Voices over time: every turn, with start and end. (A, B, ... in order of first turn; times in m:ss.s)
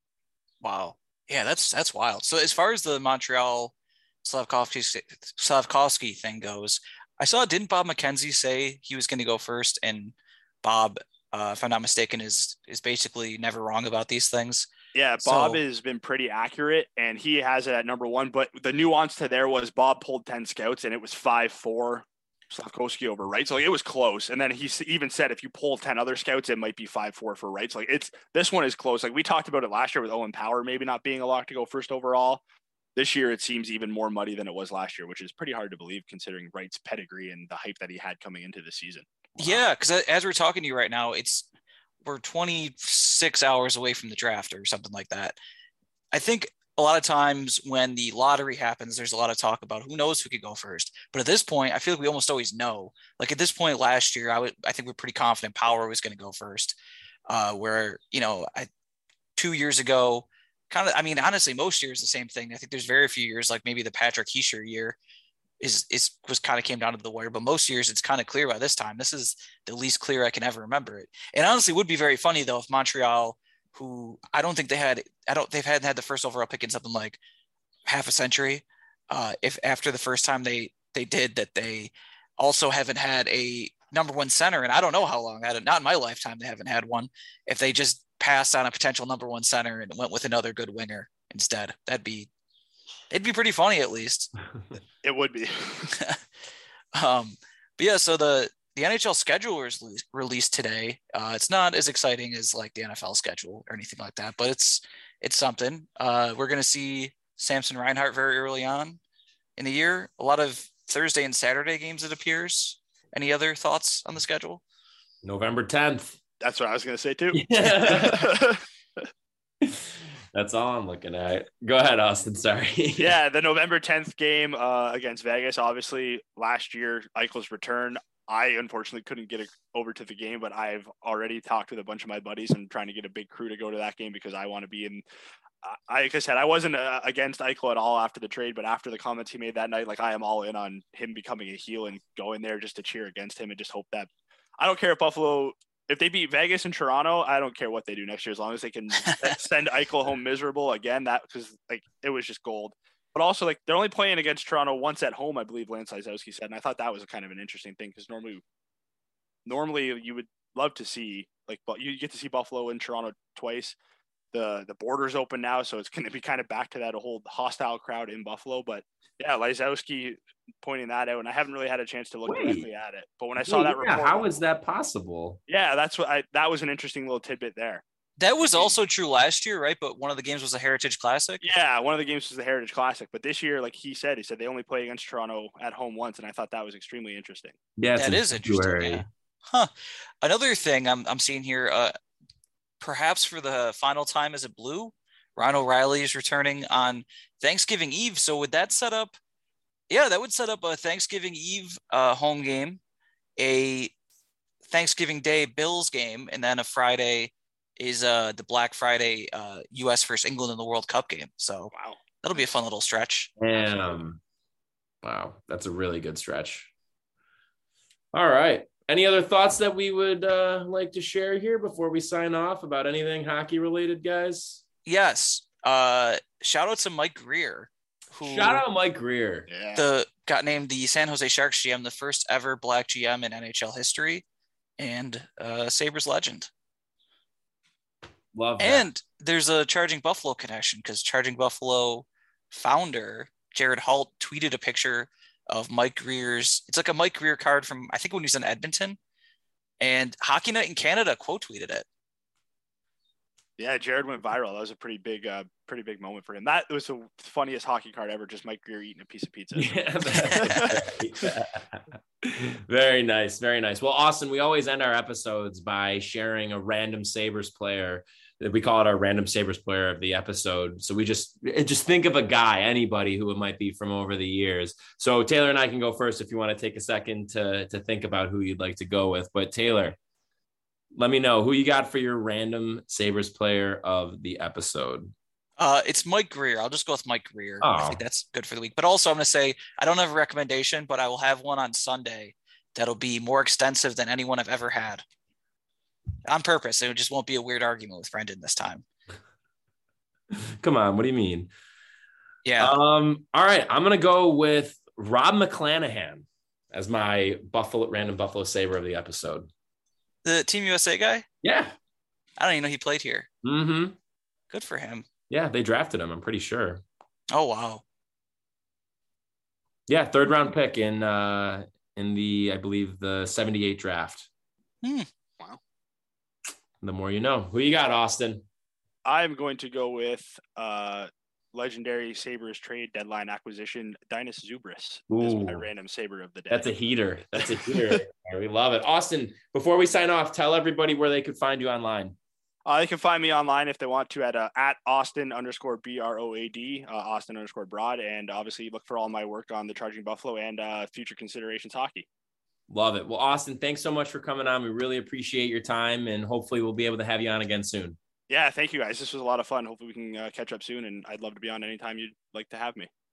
0:00.6-0:15.6 A
0:14.9-0:32.4 B
0:33.0-0:39.6 B
0:39.4-0:41.5 A
0:42.0-0:45.4 A
0:46.1-0:56.8 A
0:57.3-0:58.7 A
0:59.4-1:05.0 A
1:05.6-1:17.2 A
1:17.9-1:32.3 A
1:33.1-1:34.3 A
1:35.0-1:35.9 B
1:35.9-1:36.2 A
1:36.9-1:49.0 A
1:49.6-1:54.6 A
1:55.2-1:56.2 C
1:56.4-1:59.0 B
1:57.3-1:58.3 C
1:59.6-2:03.2 C
2:03.0-2:15.0 B
2:15.6-2:38.4 B
2:39.4-2:43.8 B
2:44.3-2:54.3 B
2:52.2-2:52.7 C
2:53.4-2:55.4 C
2:55.5-2:57.8 B
2:58.2-3:01.4 A
2:58.4-2:58.7 B
3:01.4-3:07.6 B
3:07.8-3:09.0 C
3:08.0-3:09.7 A
3:10.2-3:11.9 A
3:12.8-3:19.1 A
3:19.9-3:22.8 A
3:23.4-3:23.9 A
3:24.7-3:33.3 A
3:31.7-3:32.6 B
3:33.4-3:34.2 C
3:33.5-3:33.9 B
3:35.0-3:36.7 C
3:38.1-3:44.6 C
3:44.8-3:48.6 A
3:48.2-3:49.5 C
3:49.5-3:49.8 B
3:49.7-3:54.2 A
3:54.8-3:56.5 A
3:58.3-3:58.9 C
3:58.6-4:09.0 A
4:09.8-4:11.8 A
4:13.6-4:21.3 B
4:19.5-4:40.0 C
4:20.2-4:20.6 A
4:41.0-4:45.1 C
4:45.6-4:55.0 A
4:47.6-4:48.0 C
4:56.3-4:58.8 A
5:00.6-5:01.5 C
5:02.4-5:02.7 A
5:02.6-5:09.5 C
5:10.2-5:11.2 A
5:11.4-5:11.7 C
5:12.4-5:13.3 A
5:13.4-5:13.9 C
5:14.5-5:15.0 A
5:15.3-5:16.8 C
5:17.3-5:17.8 A
5:19.9-5:24.3 C
5:24.8-5:25.1 A
5:26.8-5:28.4 C
5:29.0-5:36.7 B
5:35.1-5:35.6 C
5:36.5-5:42.1 C
5:37.4-5:38.0 B
5:42.6-5:52.0 B
5:52.7-5:58.0 C
5:58.3-6:02.9 B